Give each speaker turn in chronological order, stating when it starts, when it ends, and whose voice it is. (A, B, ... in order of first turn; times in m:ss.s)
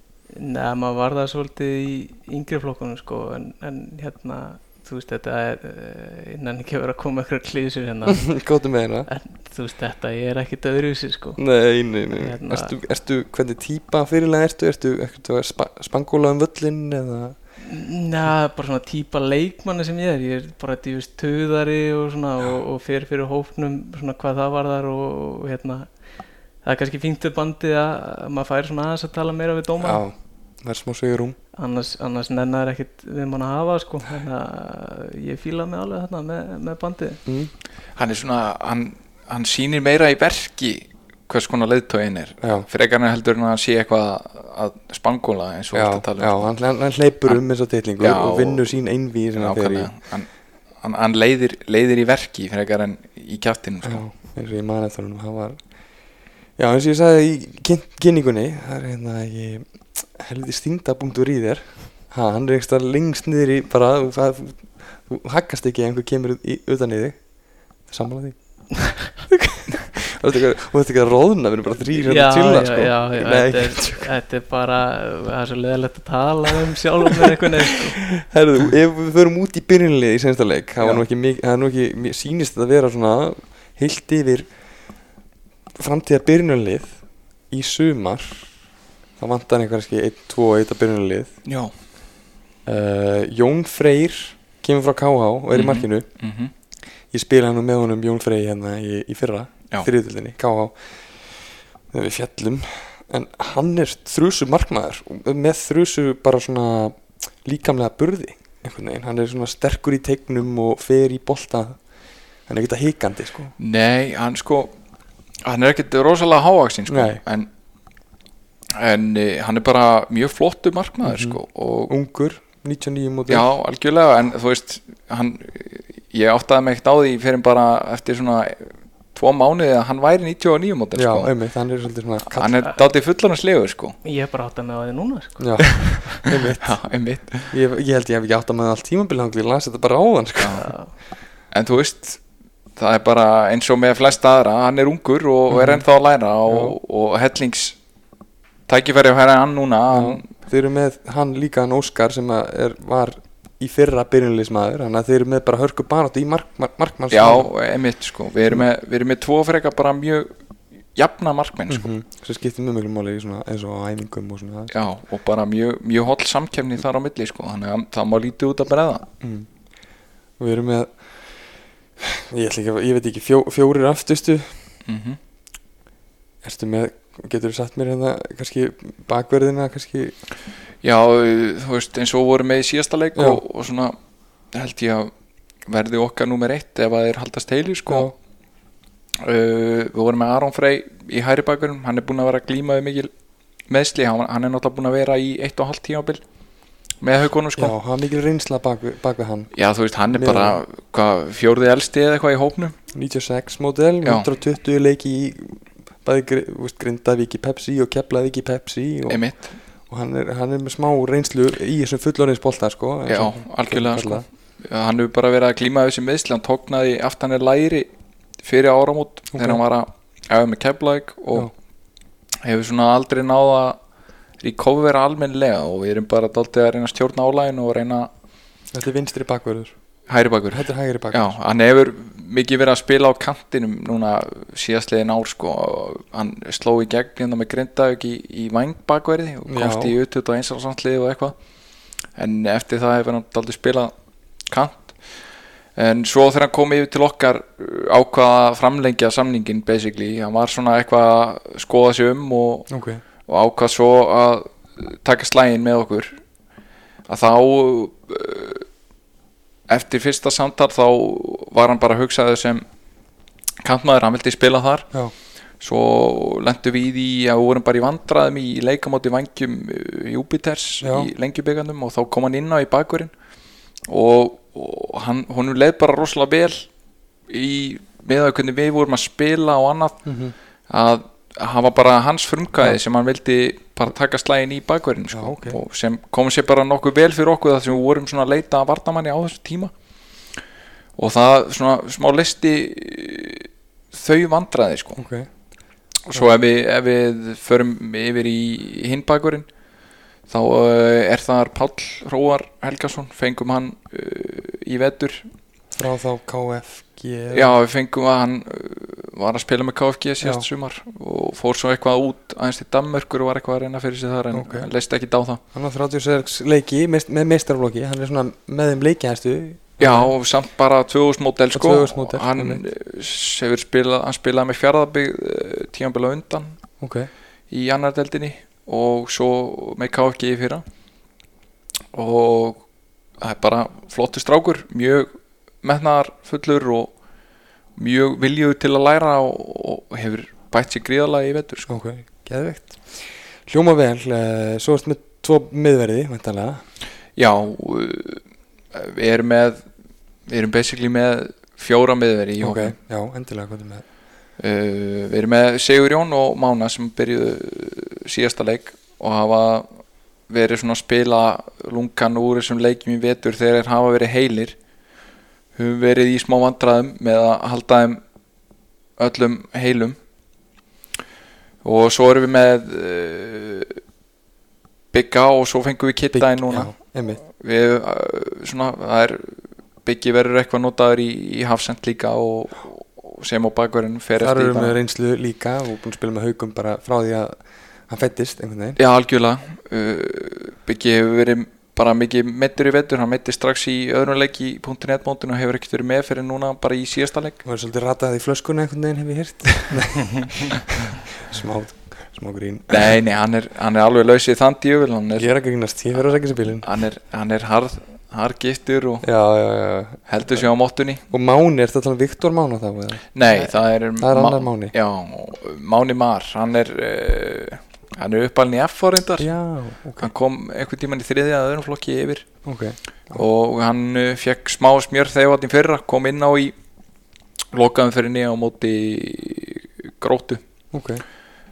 0:00.4-0:08.3 A
0:08.1-0:09.1 B
0:09.1-0:11.4 A
0:11.4-0:17.4 B
0:12.1-0:12.7 A
0:17.6-0:25.9 A
0:26.6-0:30.0 A
0:29.8-0:31.4 B
0:31.6-0:37.2 A
0:37.2-0:37.5 B
0:38.0-0:46.4 C
0:45.7-0:49.9 B
0:48.0-0:48.7 C
0:49.4-0:50.3 C
0:50.8-0:54.0 C
0:53.8-0:55.6 B
0:56.6-1:07.2 B
1:07.9-1:08.4 B
1:09.0-1:14.1 B
1:11.9-1:18.0 A
1:18.0-1:24.5 B
1:25.8-1:27.0 B
1:27.5-1:28.5 B
1:29.2-1:31.3 B
1:31.4-1:31.7 C
1:32.6-1:36.0 B
1:35.5-1:36.5 C
1:37.1-1:51.8 B
1:52.5-1:53.5 B
1:53.6-1:54.7 C
1:55.4-1:57.5 C
1:56.9-1:57.2 B
1:58.7-2:01.9 C
2:01.0-2:03.5 B
2:03.3-2:11.3 C
2:10.9-2:12.6 B
2:12.3-2:14.0 C
2:14.0-2:15.7 A
2:15.4-2:16.7 B
2:15.7-2:17.5 C
2:17.5-2:20.6 B
2:20.4-2:20.7 C
2:20.6-2:20.9 A
2:21.5-2:22.2 C
2:22.8-2:27.8 C
2:25.5-2:25.8 B
2:26.5-2:26.8 B
2:28.7-2:30.3 C
2:29.9-2:37.5 B
2:37.1-2:40.3 C
2:40.9-2:41.9 C
2:41.7-2:44.7 B
2:44.7-2:49.0 C
2:49.2-2:49.5 B
2:50.4-2:51.3 B
2:52.0-2:54.6 B
2:54.8-2:55.2 C
2:56.4-3:00.1 B
3:00.8-3:04.0 C
3:03.2-3:03.4 B
3:04.5-3:05.1 C
3:05.7-3:08.1 C
3:07.9-3:08.1 B
3:09.2-3:13.1 C
3:13.7-3:16.2 C
3:17.0-3:17.7 C
3:17.6-3:19.5 B
3:19.5-3:22.8 C
3:20.1-3:20.6 B
3:22.9-3:29.2 B
3:29.1-3:29.5 C
3:29.9-3:34.2 B
3:33.1-3:37.9 C
3:38.4-3:41.5 C
3:39.3-3:39.6 B
3:42.4-3:43.8 C
3:44.4-3:48.1 C
3:48.7-3:49.7 B
3:50.1-4:01.3 C
3:50.5-3:51.4 B
3:59.5-4:00.0 B
4:02.2-4:03.9 C
4:04.5-4:05.0 C
4:05.8-4:12.7 C
4:12.7-4:13.0 B
4:13.3-4:16.2 C
4:17.1-4:18.6 C
4:19.7-4:22.6 C
4:23.6-4:24.9 C
4:25.6-4:33.1 C
4:30.8-4:31.1 B
4:33.9-4:36.7 C
4:37.3-4:40.0 C
4:40.0-4:40.3 B
4:40.7-4:49.7 C
4:45.1-4:45.6 B
4:51.0-4:55.0 C
4:55.0-4:55.3 B
4:56.1-4:59.5 C
5:00.3-5:05.2 C
5:05.7-5:07.6 B
5:07.3-5:15.4 C
5:14.3-5:14.7 B
5:15.5-5:20.1 B
5:19.8-5:26.6 C
5:21.5-5:22.6 B
5:26.8-5:27.1 B
5:27.5-5:30.6 C
5:31.9-5:32.6 C
5:33.2-5:35.1 C
5:35.6-5:36.9 C
5:37.8-5:41.7 C
5:41.7-5:46.6 B
5:47.2-5:48.2 C
5:48.7-5:49.6 C
5:50.3-5:52.7 C
5:52.4-5:53.8 B
5:54.4-5:59.6 C
6:00.3-6:04.6 C
6:05.5-6:08.0 C
6:09.0-6:10.0 C
6:11.6-6:13.8 C
6:14.9-6:16.7 C
6:16.1-6:17.2 B
6:17.4-6:24.8 C
6:24.2-6:27.4 B
6:27.9-6:28.8 B
6:28.8-6:37.4 C
6:37.4-6:42.9 B
6:42.7-6:45.3 C
6:45.2-6:46.7 B
6:46.6-6:49.0 C
6:49.0-6:50.4 B
6:50.1-6:51.0 C
6:51.1-6:54.7 B
6:53.1-6:59.3 C
6:59.2-7:00.1 B
7:00.0-7:02.3 C
7:02.4-7:03.2 B
7:03.1-7:06.5 C
7:07.5-7:10.4 C
7:10.7-7:11.0 B